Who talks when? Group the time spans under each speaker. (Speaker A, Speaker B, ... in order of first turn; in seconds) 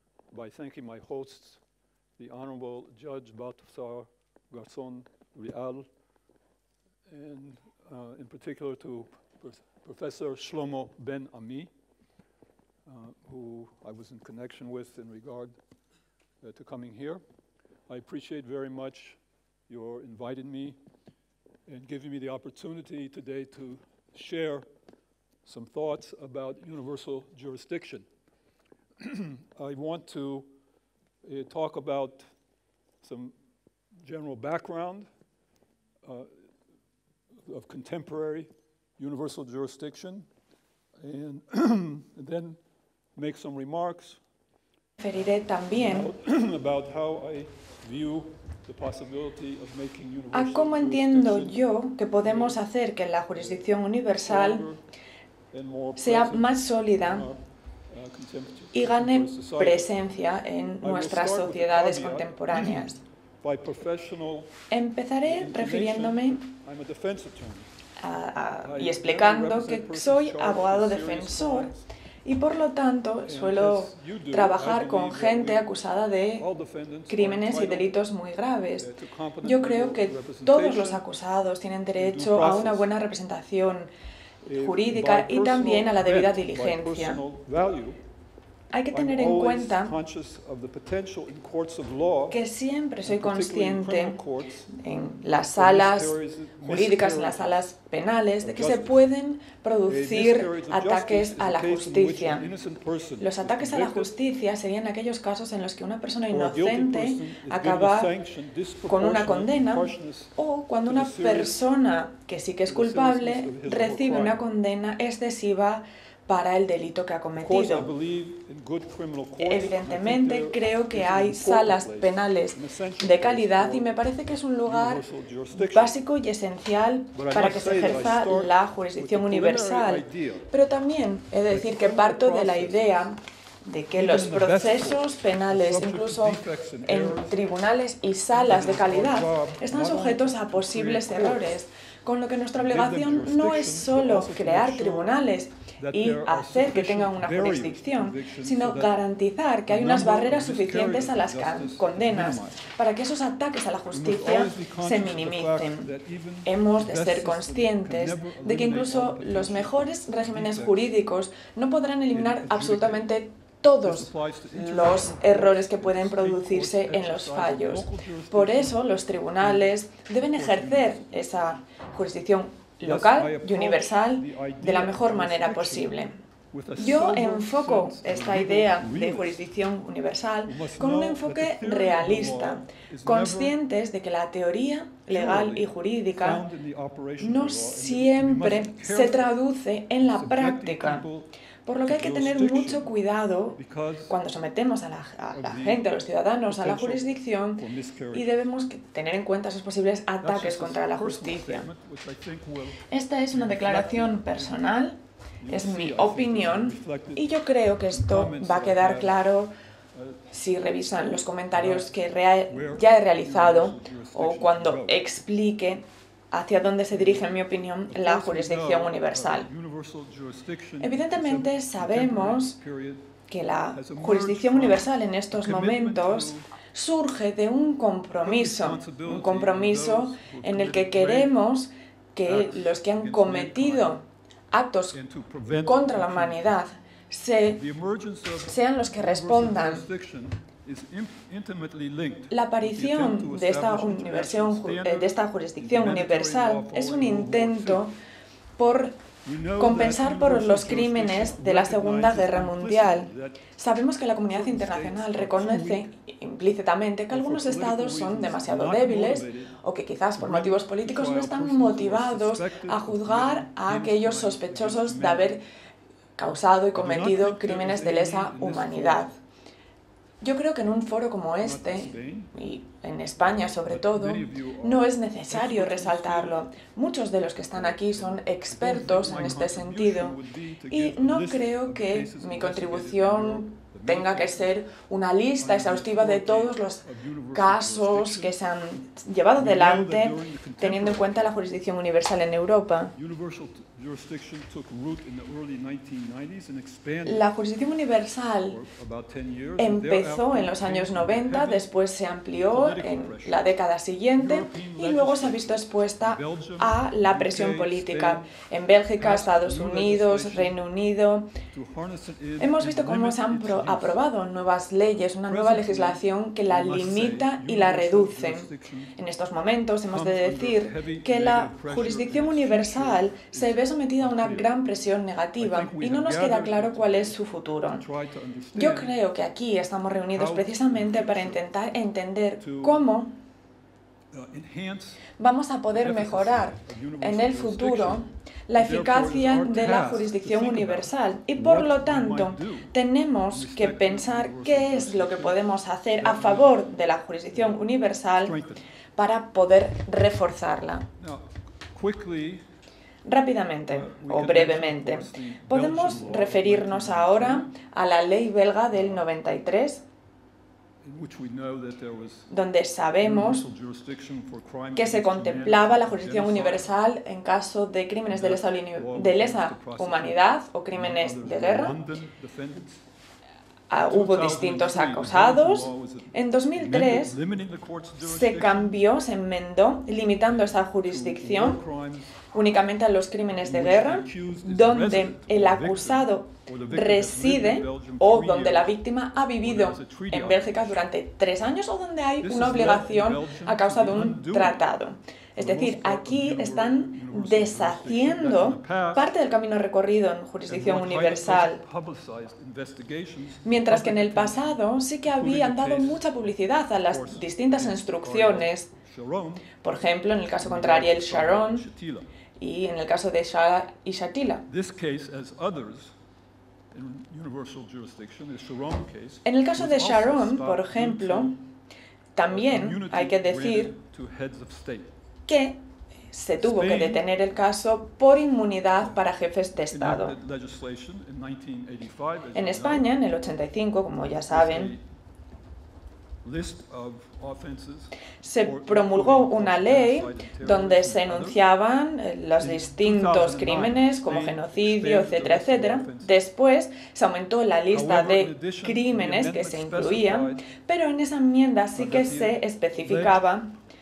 Speaker A: 0.3-1.6, 2.2-5.9, 7.1-11.7, 12.8-15.6, 16.4-17.2, 17.9-20.8, 21.6-24.7, 25.4-28.1, 29.0-30.5, 31.2-32.2, 33.0-33.3, 34.0-35.0, 36.0-36.3, 37.5-40.3, 41.0-42.6, 43.1-44.2, 45.7-51.7, 52.2-52.6, 53.3-53.7, 54.2-54.8, 55.5-59.9, 60.8-64.6, 65.2-67.7, 68.6-71.8, 73.2-75.7, 76.3-78.0, 78.8-81.0, 81.9-82.9, 84.4-88.0, 88.9-92.4, 93.0-94.7, 95.5-97.5, 98.4-99.0, 99.8-104.1, 106.3-111.6, 112.7-114.4, 117.4-124.0, 124.6-126.0, 127.1-130.5, 131.5-133.1, 133.9-137.4, 138.3-141.5, 142.5-145.2, 145.8-148.9, 149.7-152.7, 153.9-160.9, 162.1-163.1, 163.8-168.8, 169.4-171.6, 172.8-176.0, 176.5-179.4, 180.4-183.6, 185.1-189.3, 190.0-191.3, 191.8-192.9, 193.5-194.2, 195.3-198.4, 200.2-204.7, 205.4-207.3, 207.9-209.2, 209.9-210.3, 210.9-211.9, 212.5-215.1, 216.9-223.1, 223.7-226.5, 228.2-231.3, 232.2-234.0, 234.9-236.6, 237.4-247.9, 249.2-253.5, 254.3-255.9, 257.1-259.5, 260.2-265.4, 266.7-269.1, 271.4-272.4, 273.6-276.5, 277.4-284.5, 285.4-288.4, 289.4-291.3, 292.9-297.3, 298.4-301.7, 302.4-303.5, 304.1-308.3, 309.0-310.6, 311.5-314.0, 315.3-318.9, 319.9-324.5, 325.4-327.2, 327.7-329.0, 330.1-331.5, 332.4-332.9, 334.1-335.0, 335.7-342.7, 343.3-345.4, 346.0-346.6, 347.3-348.6, 351.0-352.4, 353.7-357.5, 358.7-359.1, 360.8-362.3, 363.0-366.7, 368.1-370.2, 370.7-372.8, 373.9-378.8, 380.3-382.2, 383.4-388.7, 389.4-390.8, 392.2-394.6, 395.4-399.1, 400.5-409.6, 410.4-412.1, 414.5-415.9, 416.7-421.4, 422.3-424.9, 426.4-427.0, 429.7-432.9, 434.2-434.8, 436.2-441.4, 442.4-446.2, 447.7-450.4, 451.8-453.2
Speaker B: 45.0-46.1, 50.3-54.6, 56.0-57.3, 58.7-63.0, 64.7-66.5, 68.0-71.7, 72.2-76.4, 77.1-78.9, 79.4-83.9, 84.6-87.2, 88.7-89.9, 92.3-94.2, 94.7-102.5, 103.2-108.1, 108.9-117.9, 119.4-125.0, 125.5-155.9, 156.4-176.2, 176.8-186.4, 187.2-191.1, 191.6-201.7, 202.9-205.0, 205.5-209.5, 210.3-219.5, 220.8-222.6, 223.3-235.0, 235.6-237.6, 238.4-239.8, 242.3-247.9, 248.6-249.0, 249.6-265.4, 266.2-269.1, 270.2-280.2, 280.7-292.9, 297.0-298.6, 299.6-311.4, 312.4-327.8, 328.5-333.1, 335.2-348.4, 348.9-350.9, 353.0-359.8, 362.3-363.4, 364.7-371.8, 373.7-377.1, 378.0-381.6, 382.3-401.6, 403.4-408.7, 409.6-411.6, 412.4-414.4, 419.2-421.3, 422.1-423.7, 425.3-425.6, 426.1-430.1, 432.3-434.7, 438.2-453.5